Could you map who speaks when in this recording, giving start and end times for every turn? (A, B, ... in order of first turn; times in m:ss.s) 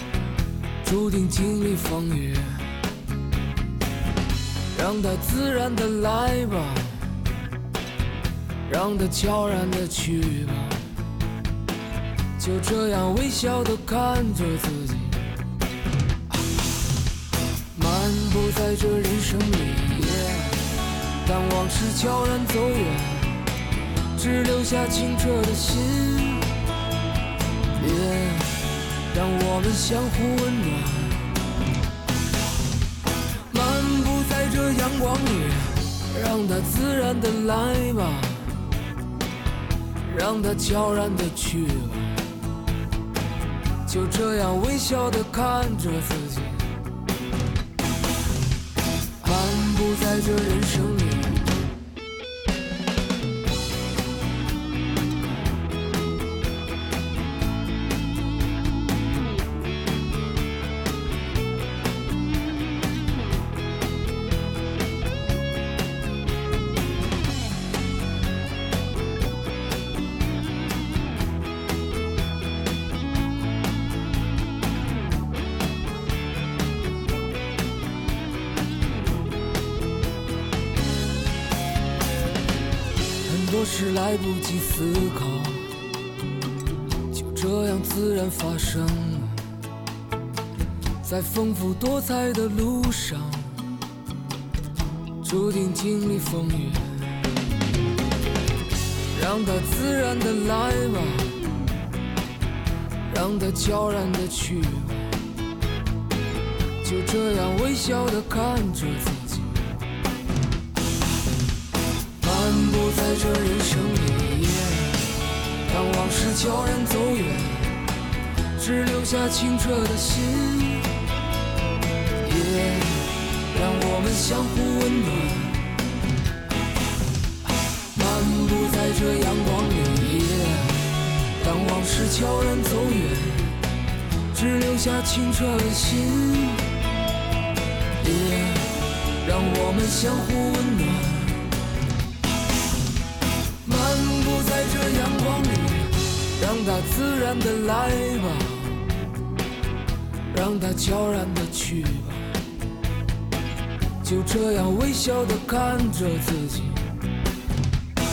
0:00.8-0:02.7 A
0:04.7-0:07.1 A
0:08.7-0:10.9 A
0:12.4-0:15.3 A
0:17.7-0:20.7 A
0:21.2-0:23.5 A
0:24.2-0:26.5 A
0:27.8-0:31.3 A
0:33.5-0:38.6 A
0:40.0-0:42.2 A
0:43.9-0:46.7 A
0:49.2-0:51.5 A
1:23.2-1:25.7 A
1:27.1-1:29.4 A
1:31.0-1:33.6 A
1:35.2-1:37.2 A
1:39.1-1:41.7 A
1:43.1-1:45.1 A
1:46.8-1:49.8 A
1:52.2-1:55.2 A
1:55.7-1:57.8 A
1:58.6-2:00.9 A
2:02.2-2:05.7 A
2:07.9-2:13.6 A
2:14.3-2:16.7 A
2:18.0-2:21.5 A
2:23.6-2:28.9 A
2:30.3-2:32.4 A
2:34.0-2:36.9 A